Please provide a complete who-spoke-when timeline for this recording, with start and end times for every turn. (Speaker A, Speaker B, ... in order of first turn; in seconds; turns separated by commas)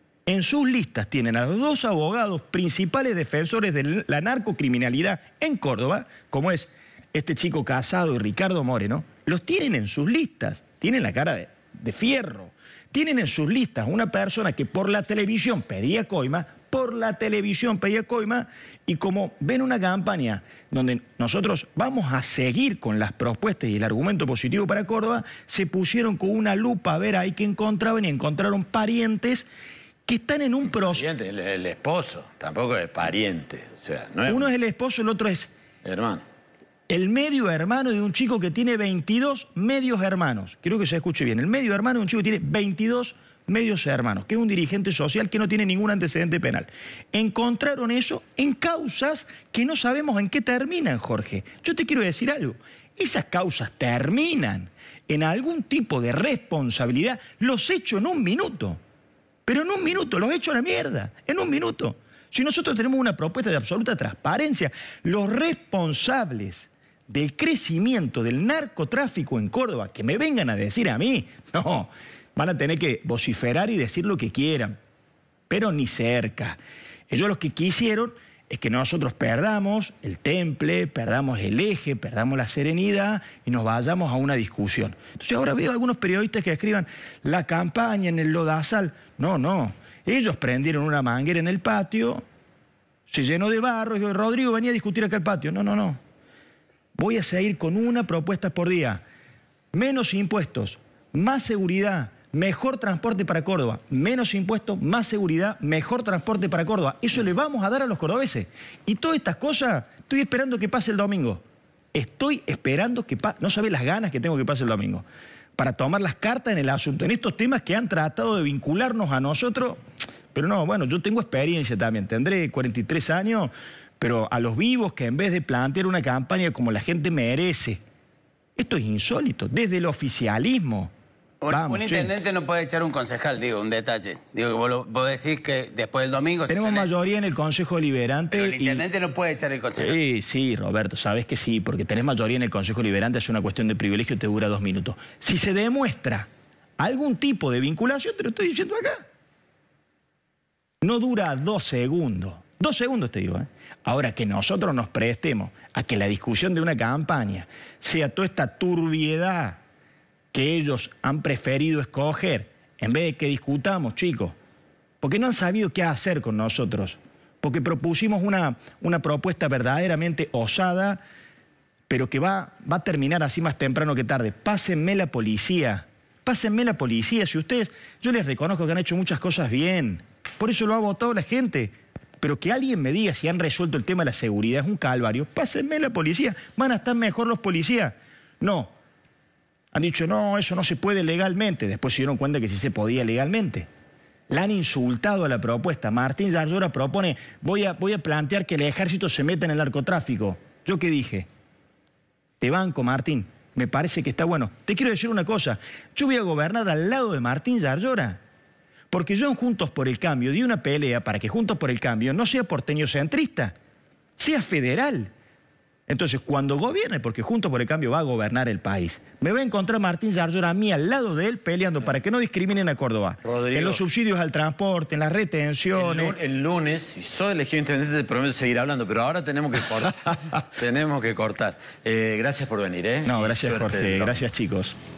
Speaker A: 0.2-29.5, Speaker A: 30.1-31.0, Speaker B: 30.8-34.5, Speaker A: 34.3-35.5, Speaker B: 35.8-36.2, Speaker A: 36.9-58.8, Speaker A: 59.5-74.8, Speaker A: 75.5-76.6, Speaker A: 77.1-92.2, Speaker A: 93.1-96.0, Speaker A: 97.0-99.0, Speaker A: 99.7-111.4, Speaker A: 111.9-115.0, Speaker A: 115.6-119.8, Speaker A: 120.3-127.8, Speaker A: 128.6-130.9, Speaker C: 131.4-136.9, Speaker A: 131.5-132.1, Speaker A: 136.5-138.8, Speaker C: 138.3-139.9, Speaker A: 139.8-146.3, Speaker A: 146.8-149.0, Speaker A: 150.8-159.6, Speaker A: 160.3-164.3, Speaker A: 165.0-171.0, Speaker A: 171.9-188.7, Speaker A: 189.7-193.7, Speaker A: 194.3-201.3, Speaker A: 202.4-208.2, Speaker A: 208.9-213.5, Speaker A: 214.2-215.1, Speaker A: 215.9-226.1, Speaker B: 223.2-223.8, Speaker B: 225.7-234.2, Speaker A: 233.1-234.8